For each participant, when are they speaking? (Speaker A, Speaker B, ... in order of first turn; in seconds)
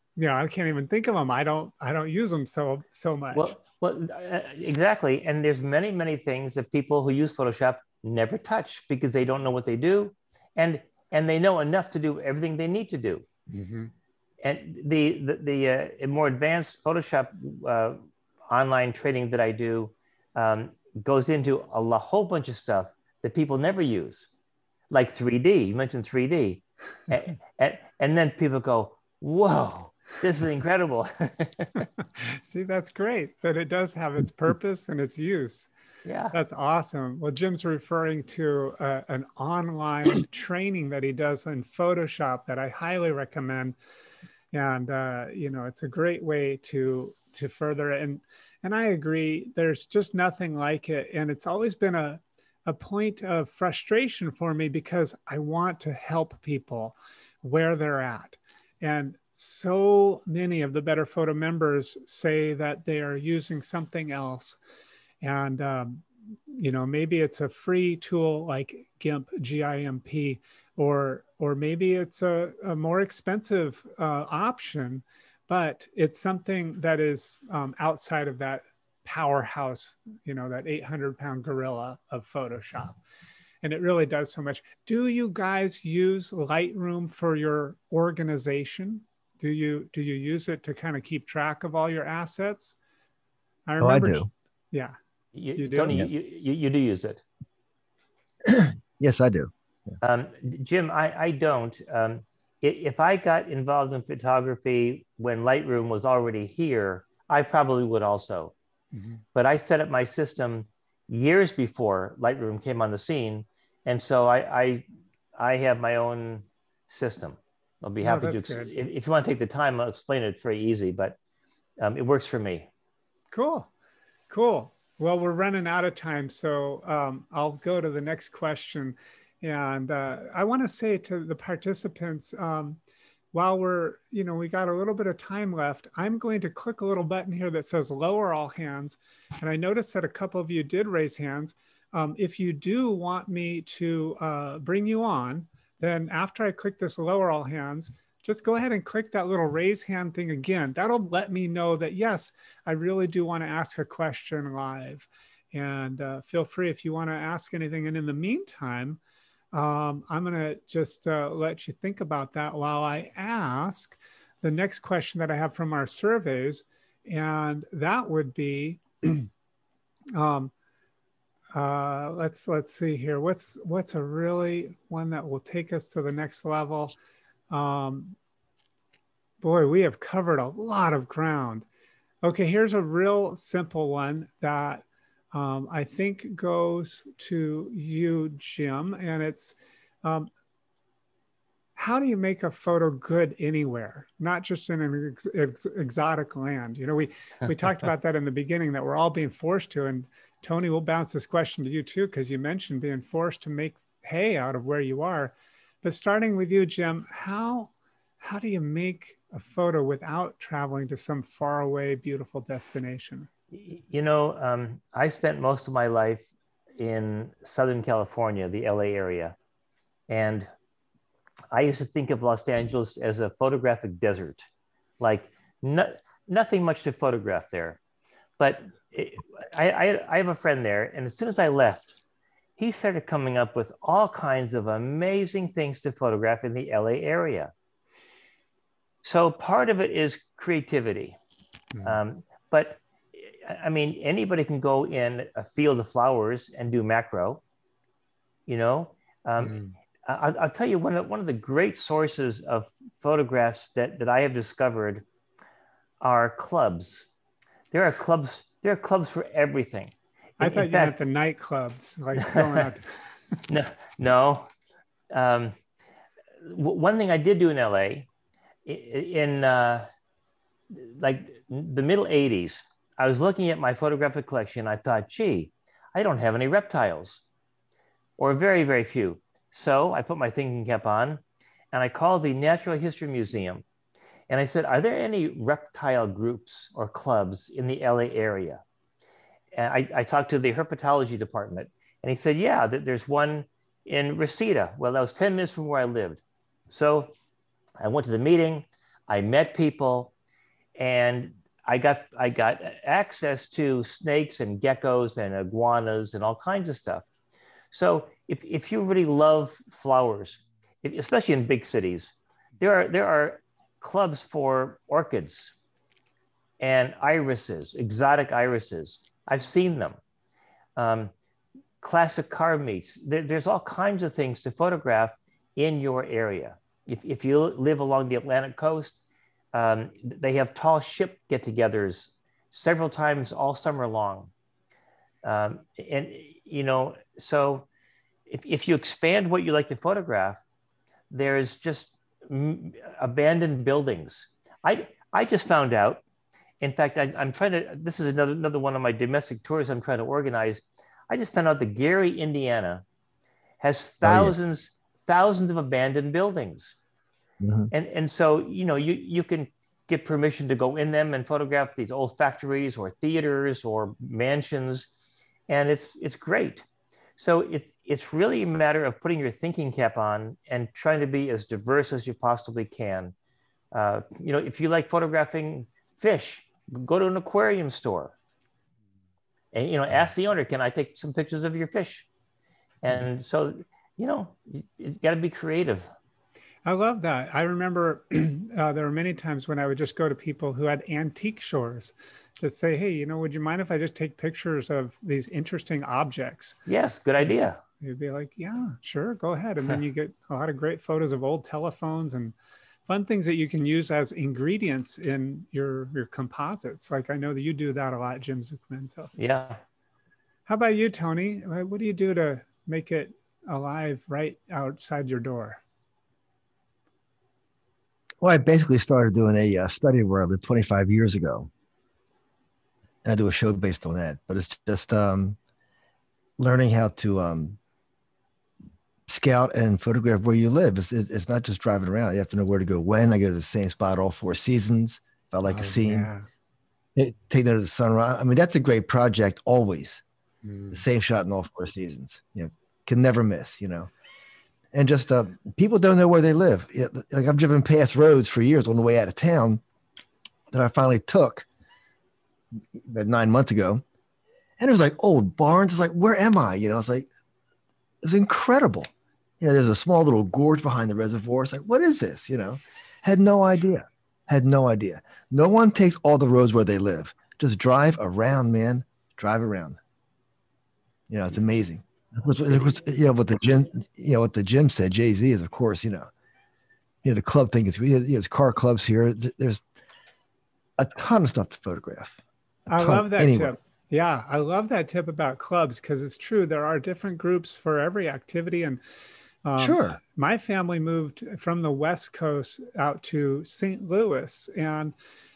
Speaker A: 0.2-3.5, 13.5-13.9, 32.2-35.7, 36.3-43.8, 44.5-64.6, 65.2-83.0, 83.6-92.8, 93.7-95.0, 95.6-96.0, 108.9-109.2, 118.0-118.7, 123.3-123.7, 124.3-132.8, 133.3-159.0, 159.5-169.3, 170.2-170.5, 171.6-177.0, 177.5-178.2, 179.4-181.7, 182.2-190.3, 191.8-213.3, 249.4-249.8, 260.4-262.9, 386.7-396.6, 397.8-402.4, 402.9-409.1, 410.5-415.6, 435.4-436.3, 440.4-440.8, 482.7-488.8, 489.4-494.9
Speaker B: 3.3-13.3, 14.4-24.3, 24.9-31.8, 36.0-36.4, 95.3-97.2, 100.0-108.5, 109.3-114.8, 115.4-121.2, 121.8-122.7, 213.5-216.3, 216.8-219.3, 220.1-220.5, 221.5-224.5, 225.0-227.8, 228.4-232.0, 232.6-237.5, 239.0-241.2, 241.8-247.4, 248.5-255.1, 256.0-257.1, 257.7-261.0, 262.2-262.6, 263.5-264.5, 265.1-265.6, 266.4-268.1, 268.6-269.9, 270.7-277.2, 278.2-283.6, 284.3-288.6, 289.6-297.1, 297.8-300.1, 300.8-307.1, 307.7-315.5, 316.6-320.0, 320.8-321.1, 321.8-329.0, 329.5-334.3, 335.2-337.7, 338.3-340.4, 341.1-346.0, 346.6-352.8, 353.6-356.8, 357.7-364.9, 365.5-366.7, 367.2-373.1, 373.7-378.1, 379.5-382.1, 382.8-385.9, 396.7-397.6, 409.2-409.6
Speaker C: 93.8-94.3, 98.4-100.0, 354.0-354.3, 357.4-357.7, 418.2-421.5, 423.0-425.4, 426.4-427.6, 429.1-436.1, 437.0-440.0, 440.7-443.9, 444.7-449.6, 450.5-451.5, 452.7-453.8, 454.6-457.1, 458.0-458.9, 459.4-469.8, 471.1-476.1, 477.0-479.6, 480.8-482.2, 482.7-483.6, 489.6-490.0